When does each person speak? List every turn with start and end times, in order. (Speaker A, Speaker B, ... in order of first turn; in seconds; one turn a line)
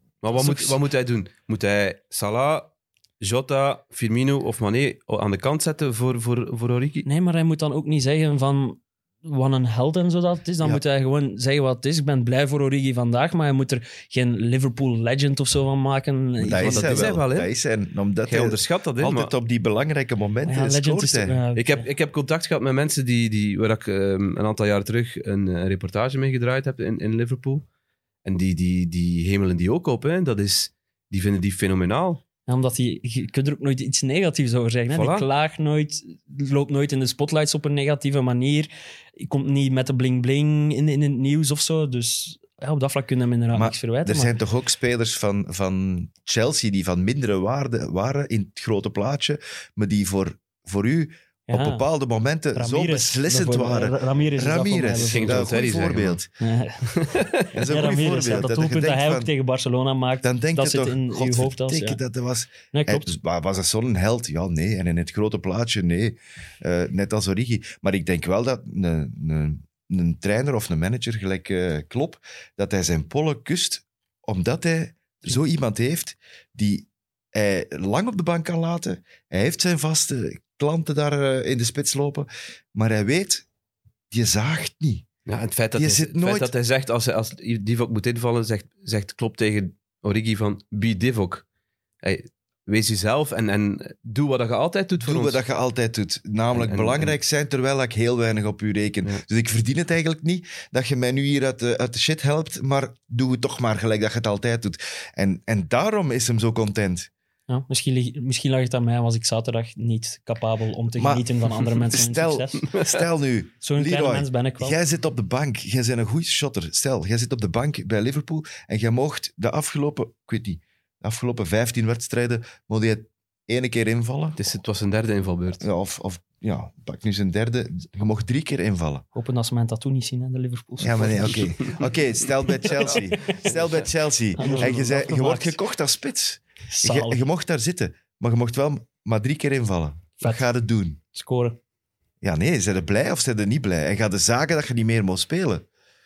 Speaker A: 0.2-7.0
Speaker B: 0.3-0.8
Speaker B: 7.0-17.1
Speaker C: 16.4-21.4
Speaker A: 16.6-17.5
Speaker A: 18.2-19.3
Speaker B: 20.5-21.9
Speaker A: 21.6-27.6
Speaker A: 28.2-32.2
Speaker B: 32.5-44.3
Speaker A: 34.9-35.2
Speaker C: 43.5-56.3
Speaker B: 51.5-51.8
Speaker B: 52.5-55.6
Speaker A: 55.0-56.2
Speaker B: 56.4-62.0
Speaker A: 57.0-57.2
Speaker C: 57.5-59.3
Speaker C: 60.2-83.4
Speaker B: 62.7-63.1
Speaker C: 84.1-85.0
Speaker A: 85.2-91.4
Speaker C: 85.7-86.5
Speaker A: 92.0-95.4
Speaker C: 95.0-107.1
Speaker A: 96.5-97.1
Speaker B: 107.5-112.7
Speaker C: 111.0-124.4
Speaker B: 113.6-114.8
Speaker A: 124.4-125.6
Speaker C: 125.6-129.0
Speaker B: 129.1-131.5
Speaker C: 130.8-141.0
Speaker A: 131.4-131.7
Speaker B: 132.6-133.5
Speaker B: 134.4-135.6
Speaker B: 136.7-137.2
Speaker B: 140.2-140.4
Speaker B: 141.1-141.6
Speaker C: 142.2-145.6